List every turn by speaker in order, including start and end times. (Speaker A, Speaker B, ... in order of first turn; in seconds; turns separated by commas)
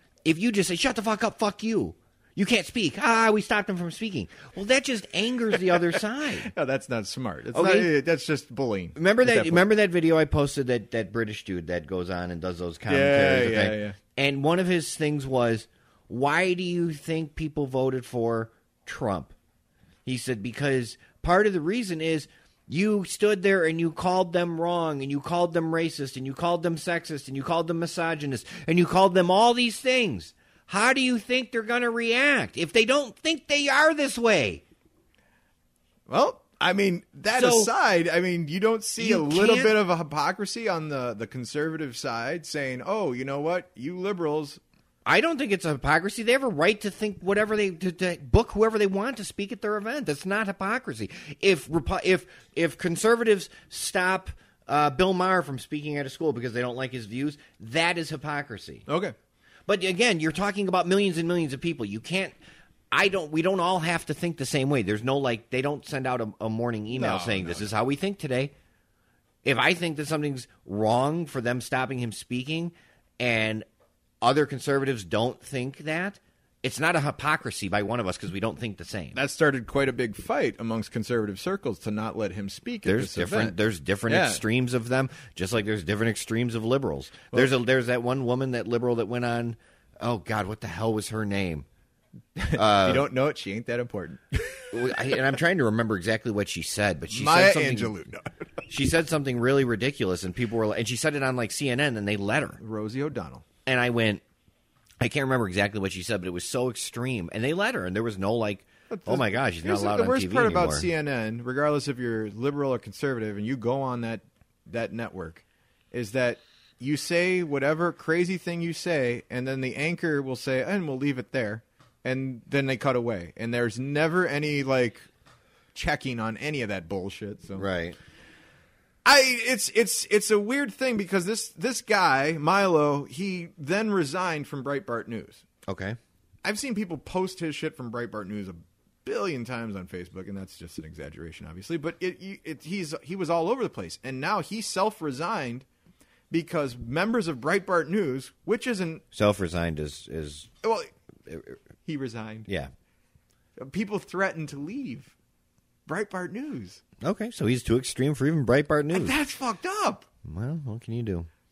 Speaker A: 0.2-6.5, Speaker B: 5.7-9.6, Speaker A: 7.5-7.9, Speaker A: 8.9-19.3, Speaker B: 12.9-14.0, Speaker A: 20.1-34.6, Speaker B: 36.1-44.6, Speaker A: 37.3-37.7, Speaker A: 39.0-39.8, Speaker A: 45.0-58.9, Speaker B: 58.9-59.1, Speaker A: 59.7-62.3, Speaker A: 62.9-68.5, Speaker B: 66.9-67.7, Speaker A: 69.4-73.7, Speaker A: 74.2-79.2, Speaker B: 79.1-84.4, Speaker A: 82.8-91.7, Speaker B: 92.3-94.7, Speaker A: 92.5-93.0, Speaker A: 94.7-98.0, Speaker B: 97.1-98.3, Speaker A: 98.7-102.6, Speaker B: 102.6-103.4, Speaker A: 103.7-104.2, Speaker A: 105.0-110.9, Speaker B: 108.9-125.1, Speaker B: 125.7-127.7, Speaker A: 127.6-128.0, Speaker B: 129.0-135.4, Speaker A: 135.7-136.0, Speaker B: 136.4-145.6, Speaker B: 146.3-149.0, Speaker A: 149.1-150.5, Speaker B: 150.6-152.5, Speaker B: 153.6-155.1, Speaker B: 155.9-156.8, Speaker A: 157.0-159.2, Speaker B: 158.9-160.1, Speaker A: 160.2-161.3